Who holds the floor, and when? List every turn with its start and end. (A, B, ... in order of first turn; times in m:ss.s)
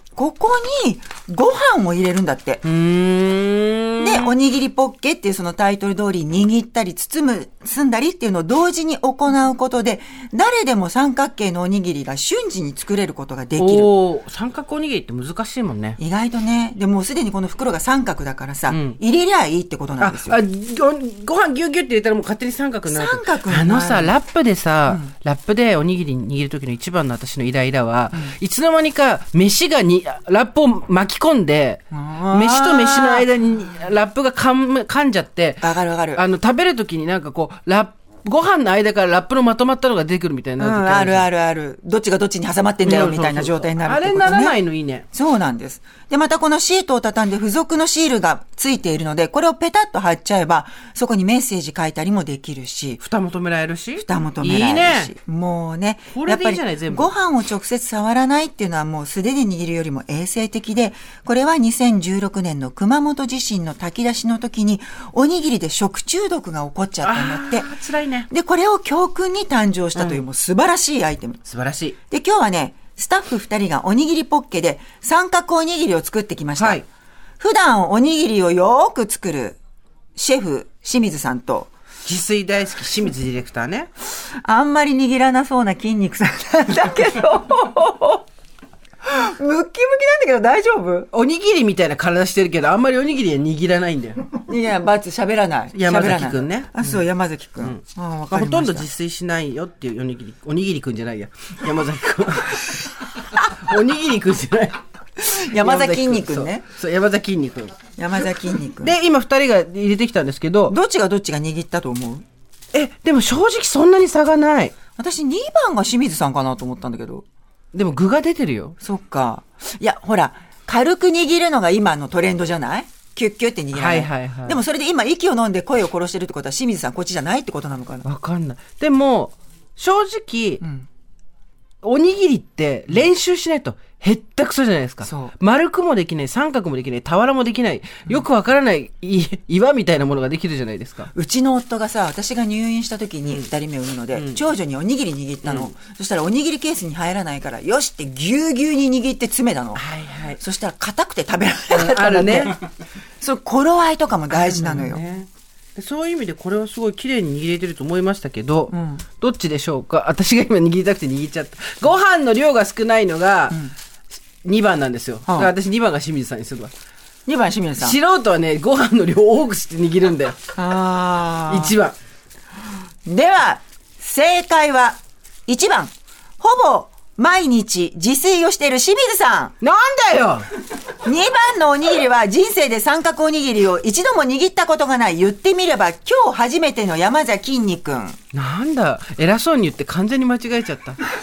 0:00.2-0:02.6 A
0:02.6-0:04.4 B
0:04.0-0:13.9 A
0:13.6-0:16.0 B
0:16.0-0:20.4 A
0:18.7-0:19.0 B
0:20.0-0:41.3 B
0:22.9-0:24.2 A
0:31.9-0:33.3 A
0:35.6-0:36.2 A
0:40.6-0:44.6 A
0:42.8-0:45.1 B
0:45.1-0:53.0 A
0:53.0-0:55.1 B
0:54.0-1:07.7 A
0:56.1-0:57.1 B
1:07.0-1:08.3 B
1:08.3-1:11.4 A
1:10.0-1:10.2 B
1:11.4-1:12.0 B
1:12.1-1:16.8 A
1:16.6-1:16.8 B
1:17.4-1:19.6 A
1:20.2-1:21.7 A
1:22.0-1:23.9 B
1:24.4-1:28.2 A
1:29.0-1:31.1 A
1:31.1-1:34.3 B
1:34.4-1:38.9 A
1:35.7-1:37.0 B
1:37.6-1:44.8 B
1:45.2-1:46.7 A
1:45.5-1:47.8 B
1:48.0-1:49.0 A
1:48.8-1:50.8 B
1:50.7-1:52.2 A
1:52.7-1:54.8 B
1:55.0-1:57.2 A
1:57.7-1:58.8 B
1:58.8-2:08.1 A
2:03.7-2:04.6 B
2:08.0-2:10.6 B
2:10.6-2:10.9 A
2:11.8-2:21.1 B
2:15.0-2:15.3 A
2:21.1-2:29.8 A
2:24.1-2:24.4 B
2:25.4-2:25.7 B
2:29.8-2:30.4 B
2:30.4-2:32.6 A
2:31.7-2:32.6 B
2:33.2-2:35.0 A
2:34.3-2:43.7 B
2:38.7-2:39.0 A
2:44.4-2:46.7 B
2:45.3-2:45.5 A
2:47.3-2:48.0 A
2:47.8-2:50.4 B
2:50.6-2:51.8 A
2:51.5-2:52.0 B
2:53.1-2:59.6 A
2:59.6-3:00.5 B
3:01.0-3:08.2 A
3:08.3-3:11.0 B